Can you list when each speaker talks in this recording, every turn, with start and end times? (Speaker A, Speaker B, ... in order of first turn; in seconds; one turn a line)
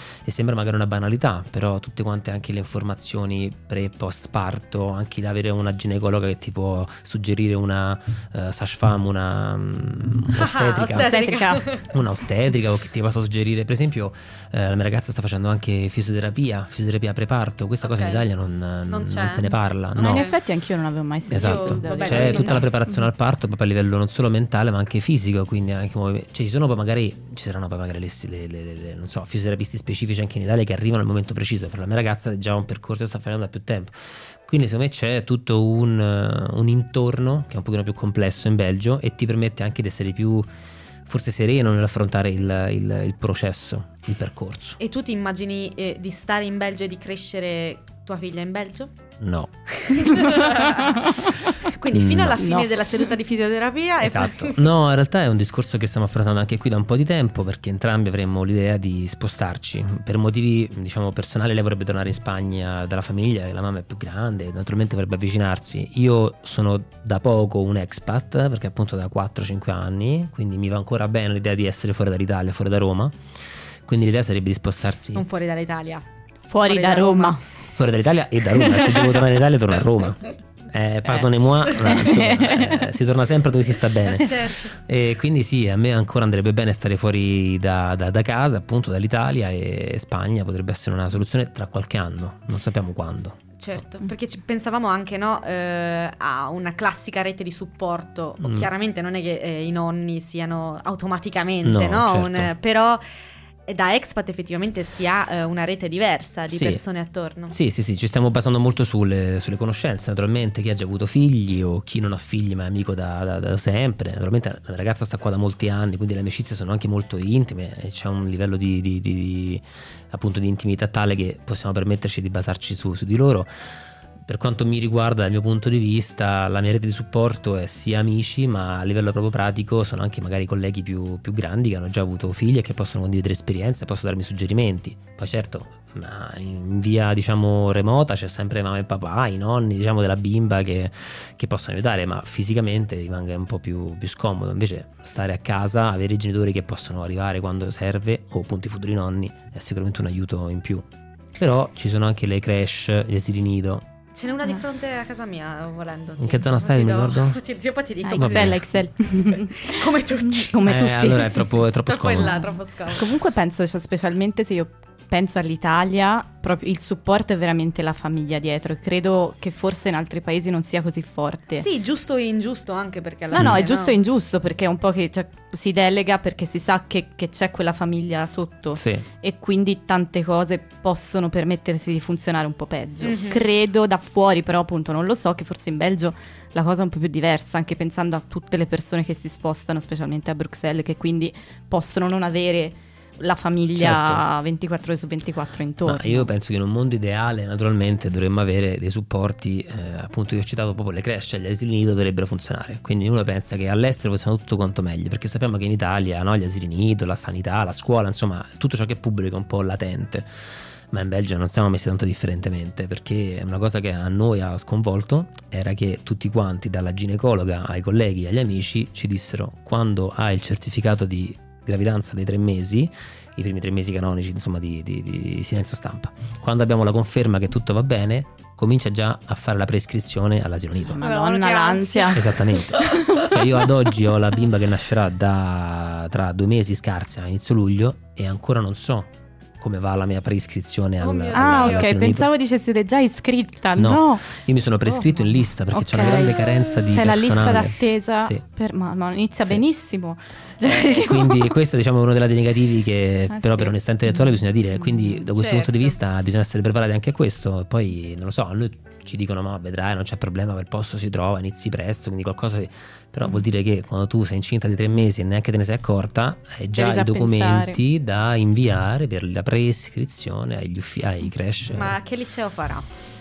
Speaker A: 0.2-11.1
Speaker B: 10.3-11.9
Speaker C: 10.9-11.7
Speaker A: 11.9-20.3
Speaker B: 17.8-18.2
Speaker B: 18.9-20.4
Speaker C: 20.0-22.7
Speaker B: 21.3-22.7
Speaker A: 21.3-40.5
Speaker A: 41.0-44.8
Speaker B: 44.8-48.9
Speaker A: 49.2-50.2
Speaker B: 49.8-54.6
Speaker C: 50.0-51.5
Speaker A: 51.9-52.5
Speaker C: 52.4-52.8
Speaker A: 54.0-73.1
Speaker A: 73.8-75.2
Speaker B: 75.1-76.0
Speaker C: 76.5-77.4
Speaker B: 76.7-77.4
Speaker A: 77.7-93.4
Speaker B: 78.6-79.2
Speaker C: 81.8-82.9
Speaker B: 84.1-84.7
Speaker B: 93.6-103.0
Speaker A: 98.4-98.7
Speaker A: 101.6-102.5
Speaker B: 103.7-107.5
Speaker A: 106.5-106.8
Speaker A: 107.5-123.5
Speaker A: 124.2-150.9
Speaker A: 151.4-153.9
Speaker B: 154.1-161.2
Speaker A: 156.2-157.4
Speaker C: 158.0-161.5
Speaker A: 158.2-158.6
Speaker A: 160.6-162.5
Speaker B: 161.8-163.1
Speaker C: 162.9-171.7
Speaker B: 171.6-173.9
Speaker C: 173.3-196.3
Speaker A: 173.3-173.6
Speaker A: 178.8-179.0
Speaker B: 183.0-183.4
Speaker A: 193.8-194.2
Speaker A: 195.8-210.3
Speaker A: 210.9-231.0
Speaker C: 230.9-233.3
Speaker B: 231.0-233.3
Speaker A: 232.1-242.3
Speaker B: 241.0-242.0
Speaker C: 241.3-244.3
Speaker A: 243.8-248.4
Speaker C: 244.8-251.6
Speaker A: 250.6-272.0
Speaker C: 253.3-253.7
Speaker B: 255.3-256.0
Speaker C: 266.7-267.8
Speaker B: 271.7-272.9